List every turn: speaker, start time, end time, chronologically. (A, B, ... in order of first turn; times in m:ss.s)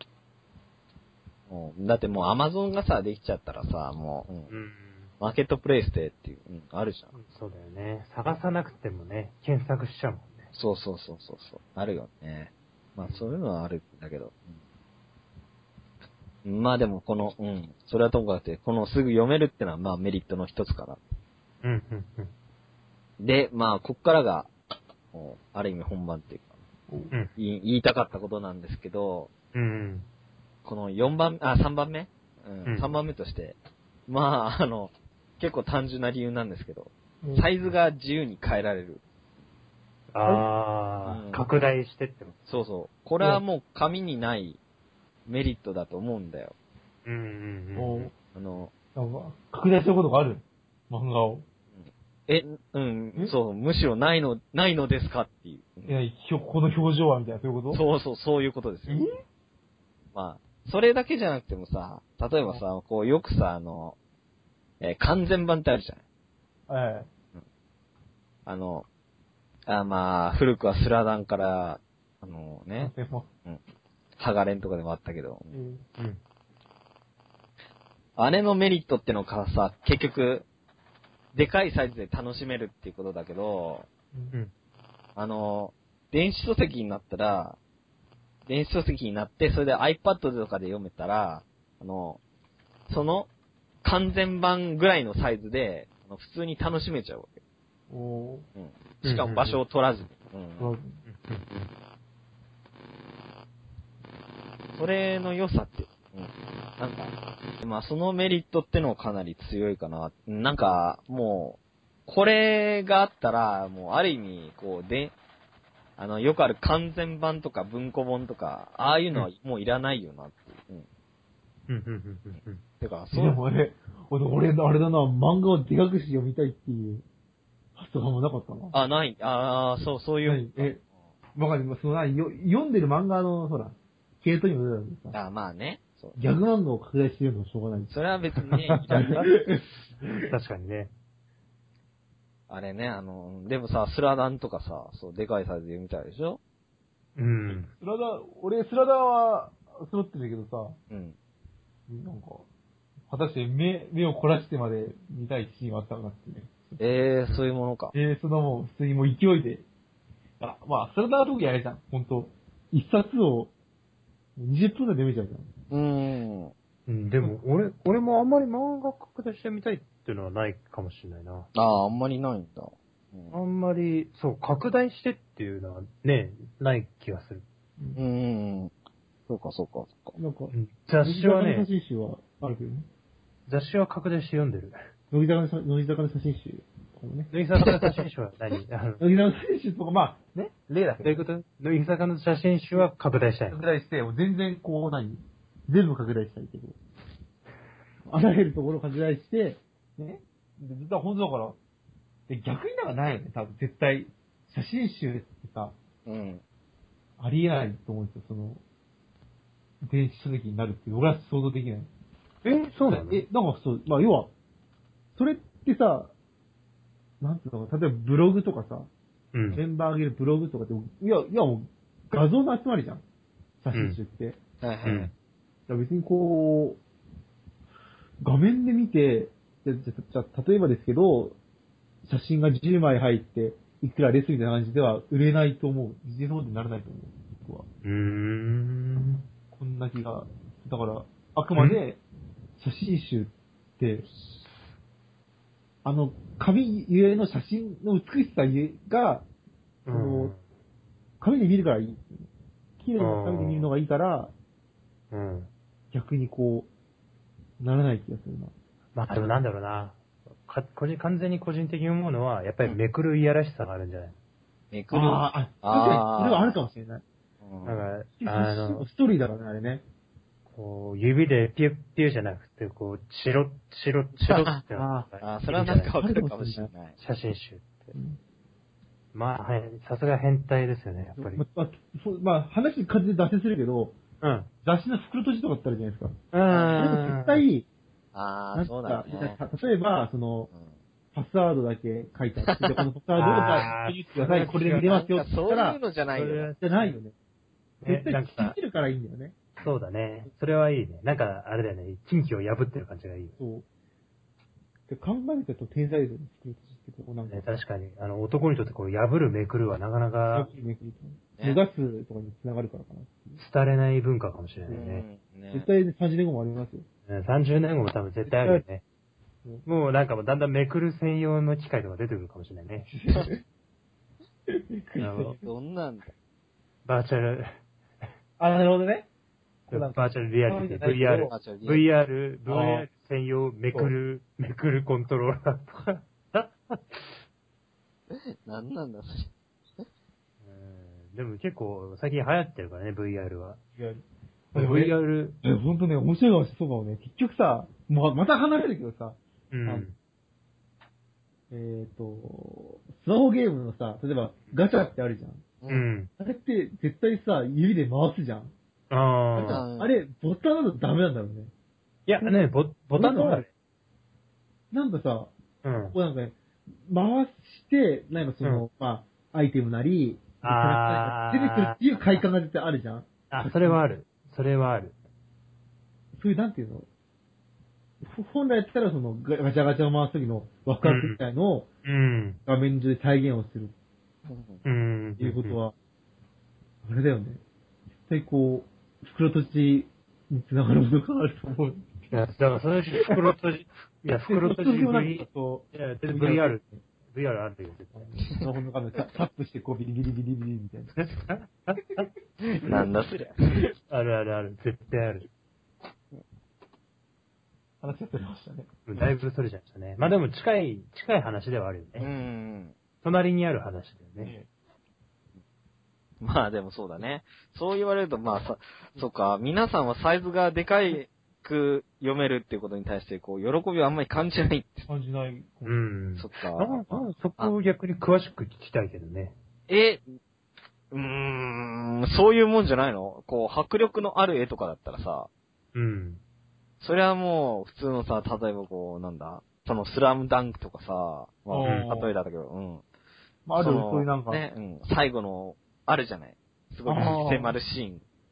0:01.5-0:04.5 A
0:04.5-0:05.1 B
0:05.2-0:07.1 A
0:07.1-0:10.5 B
0:10.5-0:14.4 A
0:13.0-0:13.3 B
0:16.4-0:21.0 A
0:21.6-0:22.3 B
0:23.2-0:24.5 A
0:25.1-0:26.5 A
0:27.4-0:29.3 A
0:29.5-0:30.1 B
0:30.6-0:39.0 A
0:32.7-0:32.9 B
0:37.2-0:37.5 C
0:40.1-0:42.5 B
0:41.0-0:41.4 A
0:42.4-0:44.6 A
0:45.3-0:46.5 A
0:47.0-0:48.1 B
0:47.8-0:48.1 C
0:48.3-0:48.7 A
0:49.0-0:51.5 C
0:51.8-0:56.0 A
0:55.9-0:57.8 C
0:57.7-0:59.1 A
0:58.9-0:59.2 C
1:00.1-1:04.0 A
1:04.8-1:06.0 A
1:06.7-1:07.1 C
1:08.5-1:08.9 A
1:09.7-1:12.9 A
1:12.8-1:13.3 C
1:14.2-1:15.5 A
1:15.5-1:15.8 C
1:18.2-1:20.5 A
1:21.3-1:23.9 A
1:25.2-1:27.6 A
1:28.5-1:32.2 A
1:32.9-1:33.3 A
1:33.8-1:37.4 A
1:37.9-1:38.5 C
1:38.6-1:40.7 A
1:39.0-1:39.6 B
1:40.6-1:41.0 C
1:41.1-1:41.7 B
1:44.8-1:55.2 A
1:56.0-2:00.9 A
2:01.7-2:02.6 B
2:02.8-2:03.4 A
2:03.1-2:07.0 C
2:07.8-2:08.8 C
2:08.7-2:10.8 A
2:10.2-2:10.8 C
2:11.4-2:15.2 C
2:15.1-2:16.2 A
2:16.2-2:17.9 C
2:17.9-2:19.2 A
2:18.7-2:19.3 B
2:18.8-2:20.3 C
2:20.2-2:20.9 B
2:22.5-2:26.4 A
2:27.2-2:27.7 B
2:27.7-2:30.8 C
2:30.9-2:31.2 A
2:31.9-2:32.5 C
2:33.1-2:36.8 C
2:36.8-2:37.9 A
2:37.9-2:39.6 C
2:40.4-2:43.5 C
2:44.4-2:45.5 C
2:45.7-2:46.5 A
2:46.9-2:51.5 B
2:51.5-2:53.4 A
2:53.3-2:57.4 B
2:58.0-2:58.7 A
2:59.3-3:00.2 A
3:00.2-3:02.9 C
3:00.5-3:01.7 B
3:03.5-3:04.8 B
3:05.1-3:08.0 C
3:07.3-3:09.0 B
3:09.0-3:11.2 C
3:11.0-3:13.6 B
3:13.5-3:16.8 C
3:18.1-3:21.6 C
3:22.3-3:25.8 C
3:26.0-3:26.4 A
3:27.2-3:28.6 C
3:29.8-3:31.9 C
3:32.4-3:33.2 B
3:32.9-3:34.3 C
3:35.2-3:36.1 C
3:37.2-3:38.9 C
3:39.3-3:39.6 B
3:39.5-3:43.0 C
3:43.6-3:44.4 C
3:43.7-3:44.0 B
3:44.6-3:45.1 A
3:44.9-3:45.1 B
3:45.7-3:46.8 C
3:48.2-3:51.4 C
3:52.0-3:57.7 C
3:57.8-3:59.2 B
3:59.5-4:02.0 C
4:01.6-4:01.8 B
4:02.6-4:04.1 C
4:05.8-4:09.2 C
4:09.9-4:10.4 B
4:09.9-4:10.3 C
4:11.2-4:12.3 C
4:12.8-4:14.3 C
4:13.0-4:13.7 B
4:15.1-4:15.5 B
4:15.9-4:16.7 C
4:17.6-4:18.5 C
4:19.0-4:24.2 B
4:19.1-4:19.4 C
4:24.7-4:26.6 A
4:24.9-4:27.0 C
4:27.4-4:27.8 A
4:27.6-4:28.9 B
4:28.2-4:29.8 C
4:30.5-4:36.0 B
4:34.2-4:37.0 A
4:36.0-4:36.7 C
4:37.0-4:37.9 B
4:37.9-4:38.2 C
4:39.1-4:41.4 B
4:41.1-4:44.0 C
4:44.2-4:44.5 B
4:44.6-4:46.2 C
4:46.3-4:47.4 B
4:46.5-4:46.9 A
4:46.8-4:47.7 C
4:48.1-4:49.4 A
4:48.5-4:50.5 C
4:51.1-4:55.8 C
4:52.4-4:53.7 A
4:53.2-4:55.0 B
4:54.8-4:56.6 A
4:56.1-4:57.0 B
4:56.6-4:57.1 C
4:57.8-4:58.6 B
4:57.8-4:59.4 C
4:59.6-5:03.4 B
5:03.4-5:03.7 C
5:04.9-5:07.5 C
5:07.3-5:10.5 B
5:10.3-5:13.4 C
5:11.4-5:11.6 A
5:13.4-5:15.0 B
5:14.7-5:15.7 A
5:15.5-5:16.8 C
5:17.1-5:18.8 B
5:18.3-5:18.6 C
5:19.6-5:22.9 B
5:22.9-5:23.4 C
5:24.5-5:25.4 C
5:25.0-5:25.4 B
5:25.4-5:26.1 A
5:26.8-5:27.6 B
5:28.4-5:29.1 C
5:29.7-5:31.3 C
5:29.7-5:37.2 B
5:31.3-5:31.8 A
5:32.5-5:32.9 C
5:38.1-5:39.9 A
5:40.4-5:43.6 B
5:43.8-5:44.0 C
5:44.5-5:49.9 C
5:44.5-5:45.4 B
5:49.5-5:50.0 B
5:51.5-5:55.6 C
5:55.6-5:55.9 A
5:55.7-5:56.1 B
5:56.2-5:58.5 C
5:58.9-5:59.6 B
5:59.4-6:01.5 C
5:59.4-5:59.9 A
6:02.1-6:03.5 B
6:02.9-6:03.4 C
6:04.7-6:05.3 C
6:05.6-6:06.0 B
6:05.9-6:13.8 C
6:10.4-6:12.2 B
6:13.3-6:15.0 B
6:16.2-6:16.9 C
6:18.0-6:21.7 C
6:20.8-6:21.2 B
6:21.8-6:22.4 B
6:22.5-6:23.7 C
6:24.3-6:24.6 A
6:24.6-6:25.6 B
6:25.2-6:25.7 C
6:26.8-6:27.4 C
6:28.1-6:32.1 C
6:32.1-6:38.3 B
6:34.2-6:36.8 C
6:37.9-6:40.9 C
6:41.0-6:42.1 B
6:42.4-6:43.4 A
6:43.9-6:45.3 B
6:47.8-6:48.7 C
6:48.9-6:52.1 B
6:52.0-6:52.8 A
6:53.0-6:54.3 B
6:54.2-6:54.5 C
6:56.2-7:04.9 A
7:04.9-7:05.8 C
7:05.6-7:09.4 B
7:06.2-7:07.5 A
7:09.7-7:10.2 A
7:10.9-7:15.3 A
7:15.7-7:16.2 B
7:16.8-7:22.8 A
7:21.5-7:22.1 C
7:23.5-7:24.4 C
7:23.6-7:28.0 A
7:26.9-7:27.6 C